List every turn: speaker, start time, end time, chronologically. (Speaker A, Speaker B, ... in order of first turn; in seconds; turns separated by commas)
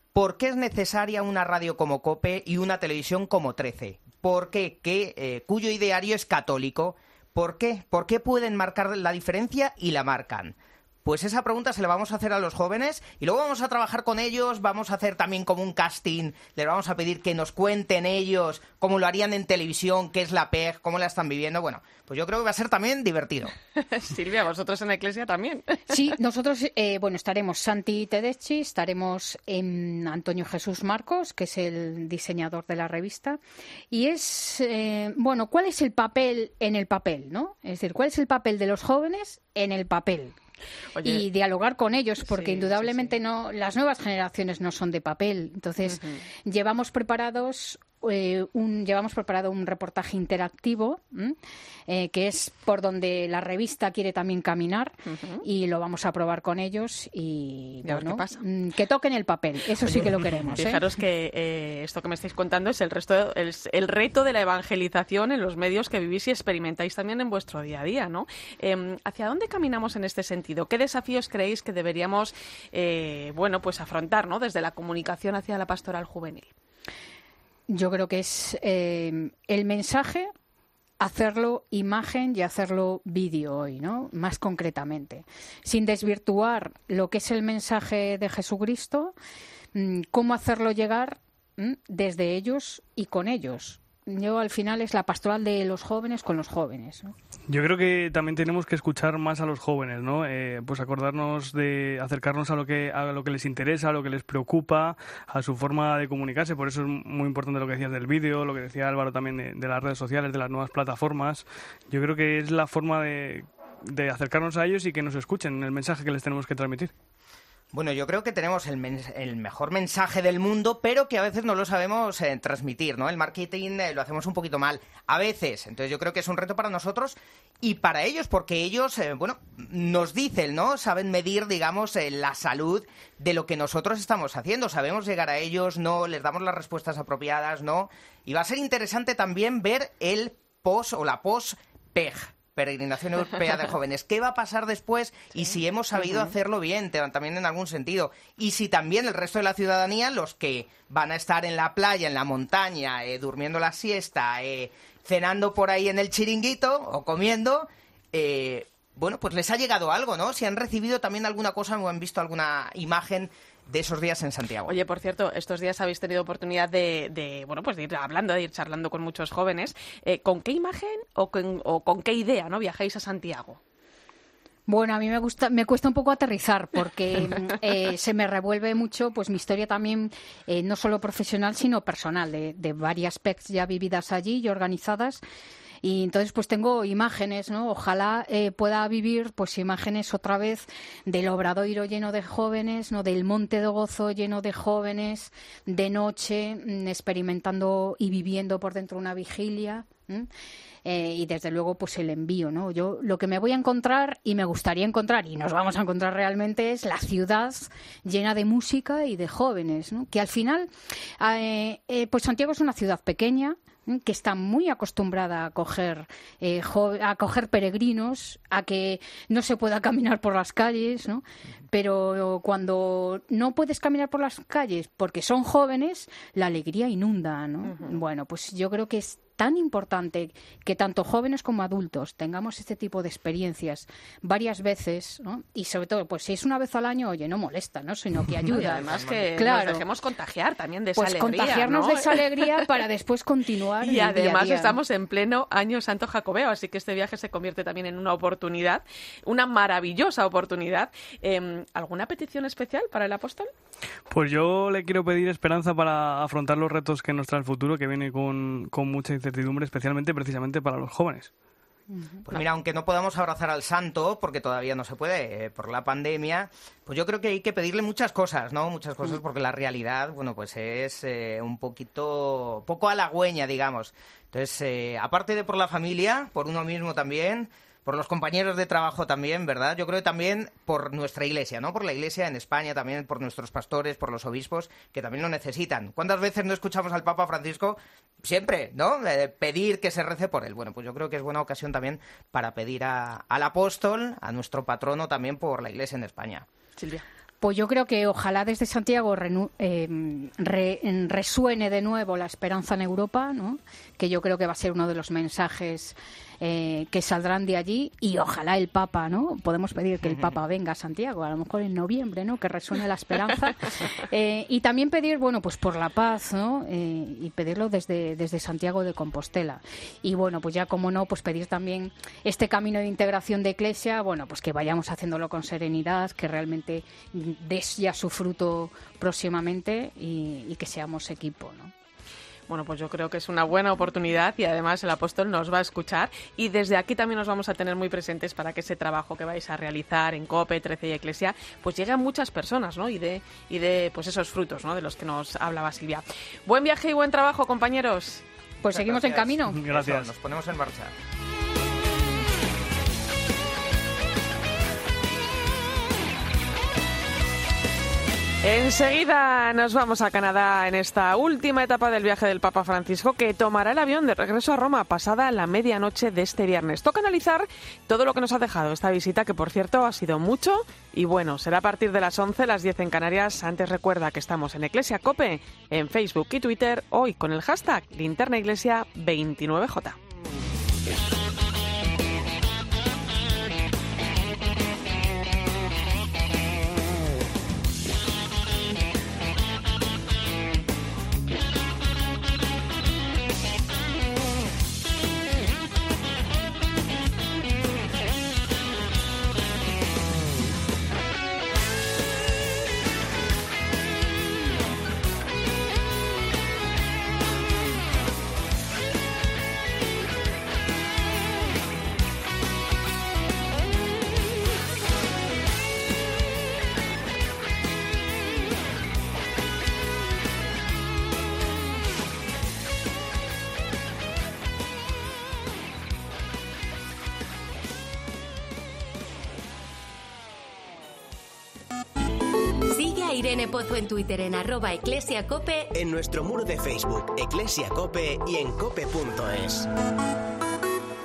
Speaker A: 0.1-23.5, Speaker B: 23.8-25.8, Speaker C: 25.9-33.4, Speaker C: 33.9-40.4, Speaker B: 41.0-41.2, Speaker C: 41.0-60.9, Speaker B: 42.2-43.1, Speaker B: 45.8-46.2, Speaker B: 55.1-55.4, Speaker B: 57.8-58.4, Speaker B: 59.8-76.5, Speaker C: 77.7-80.3, Speaker C: 81.0-89.2, Speaker C: 89.8-97.1, Speaker D: 97.5-116.9, Speaker A: 117.7-164.8, Speaker B: 164.7-173.6, Speaker C: 174.7-185.2, Speaker C: 185.8-200.3, Speaker C: 200.8-239.8, Speaker B: 227.6-228.0, Speaker B: 238.5-242.2, Speaker C: 241.0-244.8, Speaker B: 243.8-253.5, Speaker D: 254.1-261.3, Speaker C: 261.9-262.2, Speaker A: 262.3-296.5, Speaker C: 297.4-331.7, Speaker B: 332.5-348.2, Speaker C: 348.6-349.6, Speaker A: 348.7-350.9, Speaker D: 349.5-350.1, Speaker B: 358.4-380.0, Speaker E: 432.7-435.7, Speaker F: 435.7-439.7